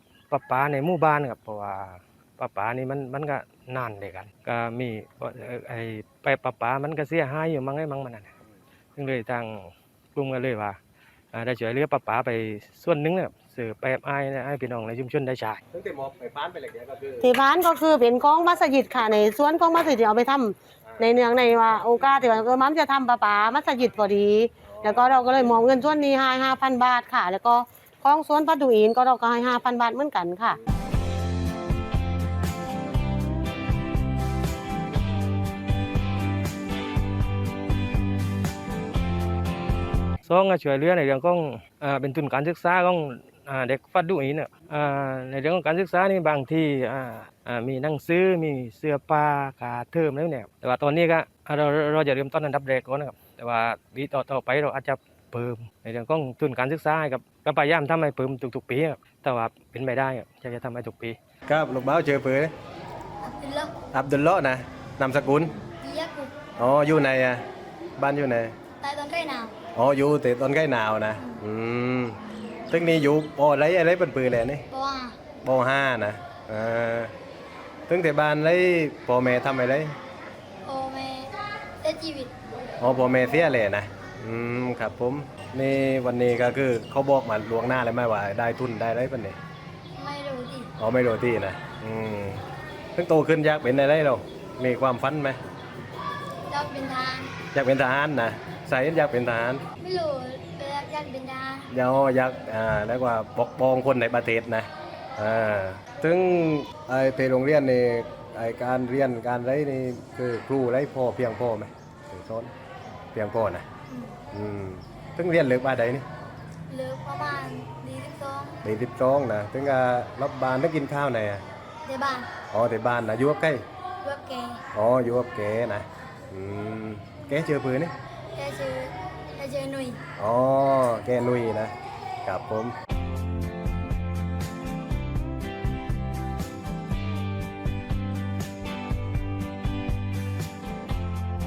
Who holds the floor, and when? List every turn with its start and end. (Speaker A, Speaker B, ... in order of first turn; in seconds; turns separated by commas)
Speaker A: 0.3-8.3, Speaker A: 8.9-10.8, Speaker A: 11.3-15.6, Speaker B: 15.7-17.3, Speaker C: 17.2-30.6, Speaker A: 40.2-61.2, Speaker B: 61.5-62.5, Speaker D: 63.2-63.7, Speaker B: 63.9-65.6, Speaker D: 65.8-66.3, Speaker B: 66.6-67.4, Speaker B: 68.0-68.5, Speaker D: 68.8-69.5, Speaker B: 69.7-74.7, Speaker D: 74.7-75.2, Speaker B: 75.4-77.1, Speaker B: 77.9-79.9, Speaker D: 80.7-82.3, Speaker B: 82.8-89.4, Speaker D: 90.0-90.7, Speaker B: 90.8-95.4, Speaker D: 96.5-97.3, Speaker B: 97.5-99.6, Speaker D: 99.8-101.7, Speaker B: 101.7-112.5, Speaker B: 113.1-113.7, Speaker D: 113.9-114.2, Speaker B: 114.3-116.0, Speaker D: 116.7-118.6, Speaker B: 118.6-121.4, Speaker D: 121.8-122.3, Speaker B: 122.5-123.6, Speaker D: 124.0-124.6, Speaker B: 124.7-127.9, Speaker D: 128.3-130.0, Speaker B: 130.2-131.7, Speaker B: 132.2-132.7